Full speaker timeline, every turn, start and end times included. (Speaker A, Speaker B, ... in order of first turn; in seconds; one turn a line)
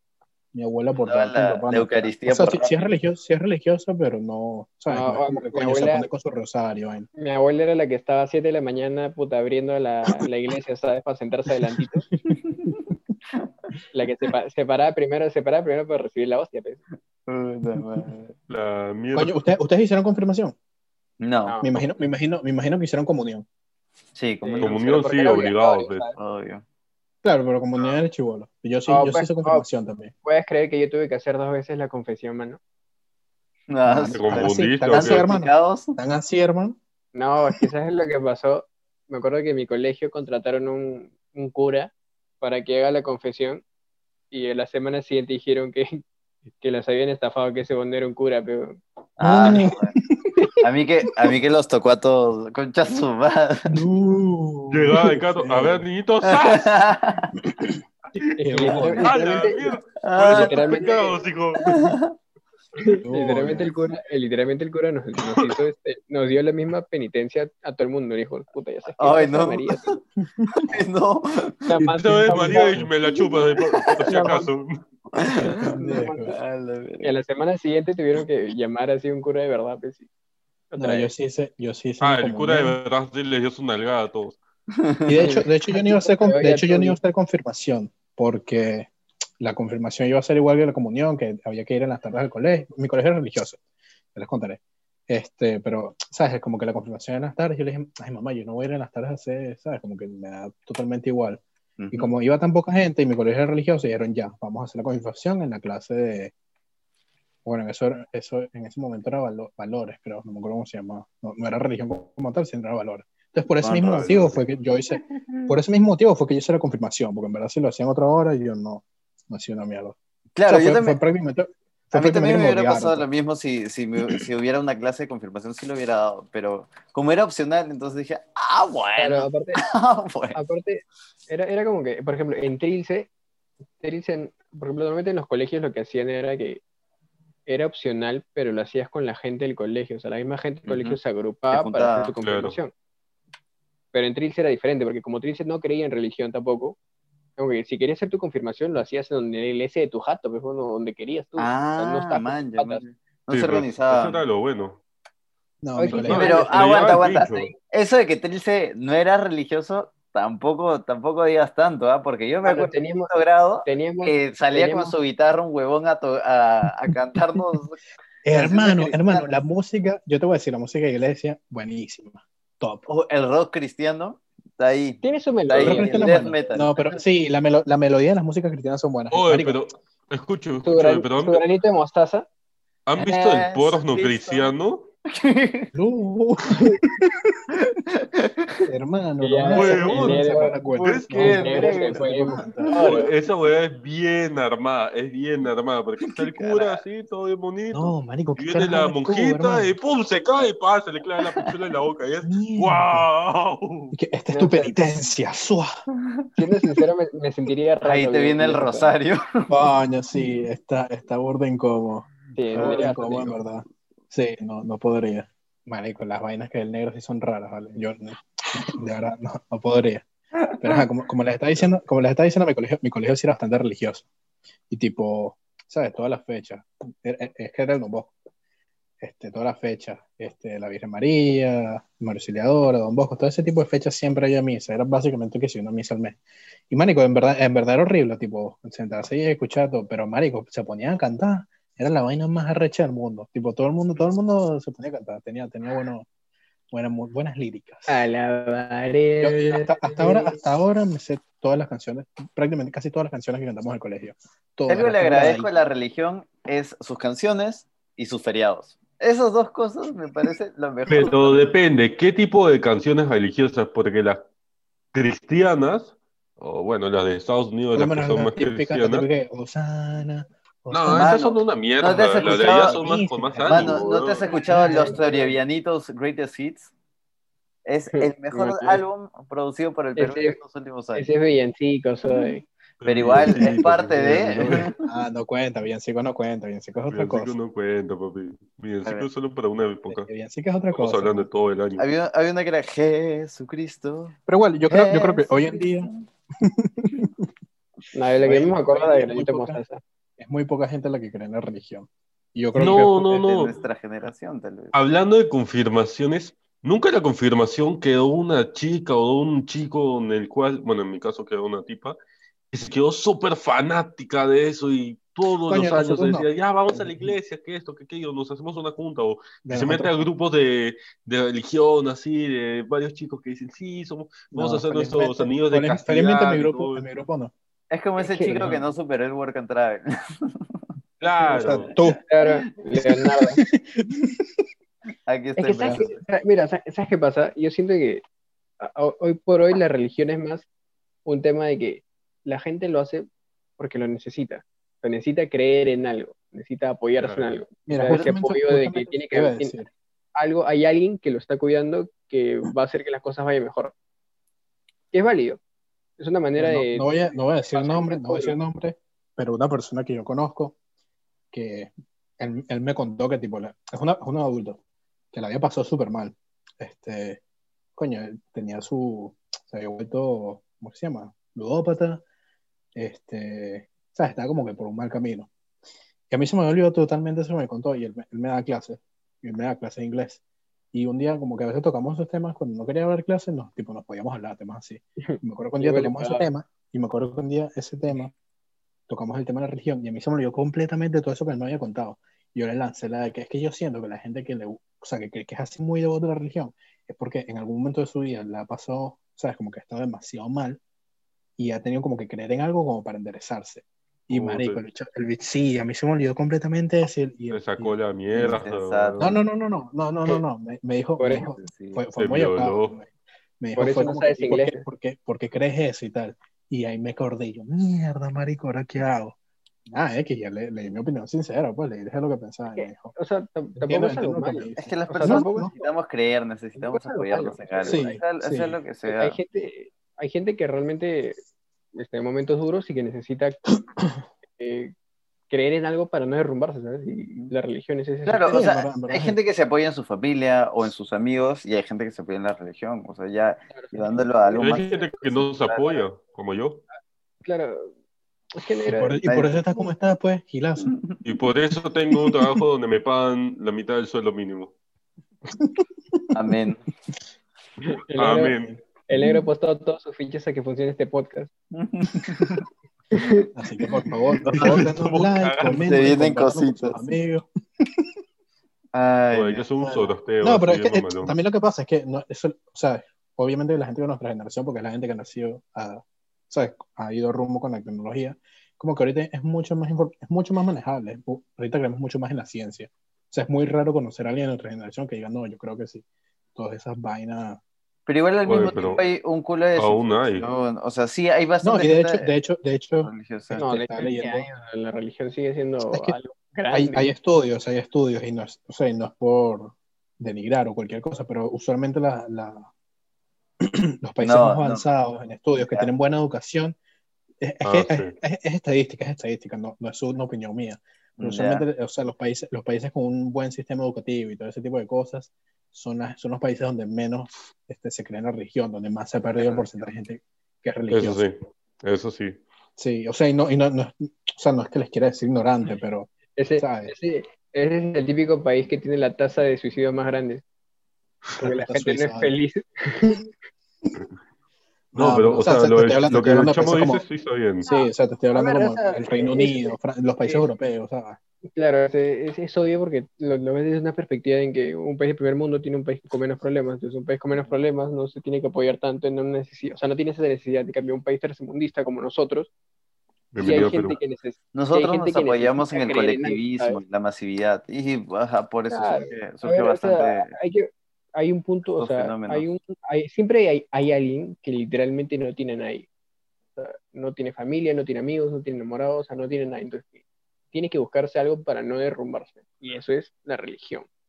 Speaker A: 0.5-7.1
Speaker B: 1.0-2.8
Speaker C: 4.9-6.1
Speaker C: 7.2-12.1
Speaker A: 12.3-12.9
Speaker B: 12.3-12.8
Speaker C: 13.9-16.8
Speaker B: 17.3-18.4
Speaker D: 18.5-19.4
Speaker A: 19.1-20.6
Speaker B: 21.2-21.6
Speaker A: 21.6-23.5
Speaker B: 24.1-24.8
Speaker C: 24.4-26.2
Speaker D: 24.6-26.1
Speaker B: 26.2-26.6
Speaker A: 27.2-30.1
Speaker C: 28.9-29.7
Speaker C: 30.2-32.6
Speaker B: 33.7-36.0
Speaker A: 33.9-36.8
Speaker D: 34.1-35.3
Speaker C: 37.1-43.6
Speaker C: 44.3-46.0
Speaker C: 46.6-48.8
Speaker B: 49.2-49.9
Speaker A: 49.2-50.3
Speaker B: 50.6-53.8
Speaker A: 53.7-55.8
Speaker D: 54.7-56.9
Speaker B: 56.2-57.3
Speaker D: 58.2-61.8
Speaker A: 58.4-59.1
Speaker C: 58.4-59.8
Speaker B: 60.0-61.0
Speaker C: 60.3-61.2
Speaker B: 61.6-62.1
Speaker C: 62.8-69.9
Speaker A: 63.0-63.7
Speaker B: 69.0-70.0
Speaker A: 70.3-70.7
Speaker B: 70.6-71.7
Speaker C: 71.7-72.8
Speaker D: 71.8-74.8
Speaker A: 72.3-72.9
Speaker B: 73.2-74.1
Speaker C: 74.1-74.5
Speaker B: 75.1-77.1
Speaker A: 75.4-76.4
Speaker C: 75.8-76.3
Speaker C: 77.0-80.1
Speaker C: 80.7-81.1
Speaker A: 80.8-82.8
Speaker D: 82.0-84.4
Speaker B: 84.8-85.2
Speaker A: 85.1-88.9
Speaker C: 85.2-87.0
Speaker A: 89.4-93.6
Speaker A: 94.2-106.3
Speaker B: 101.8-102.1
Speaker A: 107.5-123.1
Speaker B: 113.6-114.4
Speaker D: 114.0-114.3
Speaker B: 120.4-121.0
Speaker B: 121.9-130.4
Speaker C: 129.0-129.6
Speaker C: 130.3-133.1
Speaker C: 133.8-136.6
Speaker C: 137.5-142.7
Speaker B: 140.7-141.0
Speaker B: 141.5-142.1
Speaker D: 142.2-142.6
Speaker C: 143.9-146.8
Speaker C: 147.4-152.8
Speaker B: 151.4-154.2
Speaker D: 153.3-154.8
Speaker A: 155.6-156.4
Speaker C: 155.8-157.5
Speaker D: 155.9-157.5
Speaker B: 156.1-169.2
Speaker C: 162.4-163.1
Speaker C: 163.7-164.9
Speaker A: 168.2-172.9
Speaker B: 172.9-177.0
Speaker C: 175.0-176.4
Speaker A: 175.6-179.6
Speaker D: 179.1-181.4
Speaker C: 180.6-182.3
Speaker D: 182.9-184.9
Speaker B: 183.0-184.5
Speaker B: 185.1-185.7
Speaker A: 185.8-187.2
Speaker B: 187.6-188.6
Speaker A: 188.7-192.9
Speaker C: 189.2-193.1
Speaker D: 189.5-190.3
Speaker D: 190.8-191.7
Speaker B: 191.1-193.1
Speaker D: 192.7-203.9
Speaker B: 196.2-196.8
Speaker A: 197.7-199.7
Speaker A: 202.2-203.1
Speaker A: 203.9-205.7
Speaker C: 204.3-204.8
Speaker C: 206.4-208.9
Speaker B: 207.8-209.6
Speaker A: 209.5-220.1
Speaker C: 212.4-213.4
Speaker B: 212.5-212.9
Speaker A: 220.6-224.1
Speaker A: 224.7-228.1
Speaker A: 229.0-236.2
Speaker A: 236.7-246.1
Speaker A: 246.7-248.0
Speaker C: 247.9-250.4
Speaker A: 249.2-255.5
Speaker B: 254.7-261.5
Speaker D: 260.9-264.2
Speaker D: 264.9-269.1
Speaker A: 267.7-271.2
Speaker D: 270.7-274.3
Speaker B: 270.9-272.8
Speaker A: 272.2-273.8
Speaker B: 273.5-276.7
Speaker C: 273.8-275.4
Speaker A: 274.5-275.0
Speaker B: 277.6-281.1
Speaker C: 277.9-278.8
Speaker C: 280.0-280.4
Speaker C: 280.9-282.5
Speaker D: 282.8-284.7
Speaker B: 282.8-284.9
Speaker A: 283.2-283.6
Speaker A: 284.8-287.4
Speaker D: 286.9-290.1
Speaker A: 289.9-291.3
Speaker D: 290.7-291.9
Speaker B: 291.8-294.1
Speaker A: 294.3-297.3
Speaker B: 294.7-296.1
Speaker C: 297.9-299.8
Speaker A: 298.2-299.6
Speaker A: 300.2-303.3
Speaker D: 302.6-303.5
Speaker B: 303.2-304.7
Speaker D: 304.7-312.0
Speaker D: 312.5-326.9
Speaker A: 315.5-317.2
Speaker A: 319.4-320.0
Speaker A: 324.3-327.3
Speaker B: 327.7-330.6
Speaker C: 328.0-328.5
Speaker D: 331.0-331.7
Speaker A: 331.2-332.0
Speaker C: 332.1-333.4
Speaker A: 333.4-334.3
Speaker B: 335.1-336.0
Speaker C: 335.4-338.0
Speaker A: 335.6-335.9
Speaker C: 338.6-340.5
Speaker C: 341.1-343.1
Speaker C: 343.6-349.5
Speaker D: 347.0-347.3
Speaker A: 347.7-349.7
Speaker C: 350.2-353.7
Speaker C: 354.9-355.4
Speaker C: 356.0-356.9
Speaker A: 356.4-360.6
Speaker C: 357.5-358.4
Speaker A: 361.3-364.6
Speaker A: 365.1-367.2
Speaker A: 367.8-372.0
Speaker A: 372.8-375.3
Speaker A: 376.1-380.2
Speaker A: 380.7-388.1
Speaker C: 385.0-386.3
Speaker A: 388.9-400.6
Speaker A: 401.4-408.4
Speaker D: 404.1-404.6
Speaker D: 407.3-409.2
Speaker B: 408.1-409.1
Speaker A: 409.0-412.9
Speaker C: 411.0-411.3
Speaker B: 411.2-411.8
Speaker D: 412.0-412.8
Speaker A: 413.4-419.2
Speaker C: 413.6-414.6
Speaker A: 419.7-422.9
Speaker C: 422.5-425.7
Speaker A: 423.6-425.5
Speaker B: 424.6-429.2
Speaker C: 426.6-427.9
Speaker A: 427.6-428.6
Speaker C: 428.9-431.2
Speaker C: 431.8-433.4
Speaker C: 434.4-434.7
Speaker C: 435.3-438.4
Speaker B: 438.1-445.8
Speaker A: 438.3-439.2
Speaker C: 443.5-444.5
Speaker D: 444.4-446.6
Speaker C: 447.2-447.7
Speaker C: 448.3-449.0
Speaker A: 448.7-450.7
Speaker B: 449.1-449.4
Speaker B: 450.6-451.0
Speaker D: 451.1-454.5
Speaker A: 455.4-456.0
Speaker B: 456.1-456.6
Speaker C: 457.9-458.4
Speaker D: 457.9-458.6
Speaker C: 458.9-461.3
Speaker B: 461.5-462.4
Speaker C: 462.9-463.2
Speaker A: 463.4-467.3
Speaker B: 464.2-464.6
Speaker D: 464.3-465.8
Speaker B: 465.7-466.8
Speaker B: 468.7-469.5
Speaker D: 469.1-471.1
Speaker A: 469.6-485.8
Speaker A: 486.4-487.4
Speaker B: 487.9-492.1
Speaker D: 488.3-488.8
Speaker D: 489.6-490.3
Speaker A: 491.4-494.3
Speaker B: 492.8-493.4
Speaker C: 493.4-496.9
Speaker A: 495.7-496.0
Speaker A: 496.5-502.5
Speaker A: 503.4-506.6
Speaker B: 504.0-504.6
Speaker A: 507.2-521.0
Speaker D: 507.4-507.9
Speaker B: 511.0-511.5
Speaker B: 519.2-519.5
Speaker D: 520.7-522.2
Speaker A: 522.6-526.7
Speaker C: 526.2-530.2
Speaker A: 531.2-532.1
Speaker C: 531.2-533.1
Speaker A: 534.7-536.8
Speaker D: 534.7-537.5
Speaker A: 537.5-541.0
Speaker C: 537.5-540.2
Speaker C: 541.4-552.3
Speaker D: 553.1-553.8
Speaker C: 553.2-556.6
Speaker B: 554.3-560.1
Speaker C: 558.5-565.7
Speaker B: 561.5-562.3
Speaker C: 566.4-569.8
Speaker C: 570.3-573.7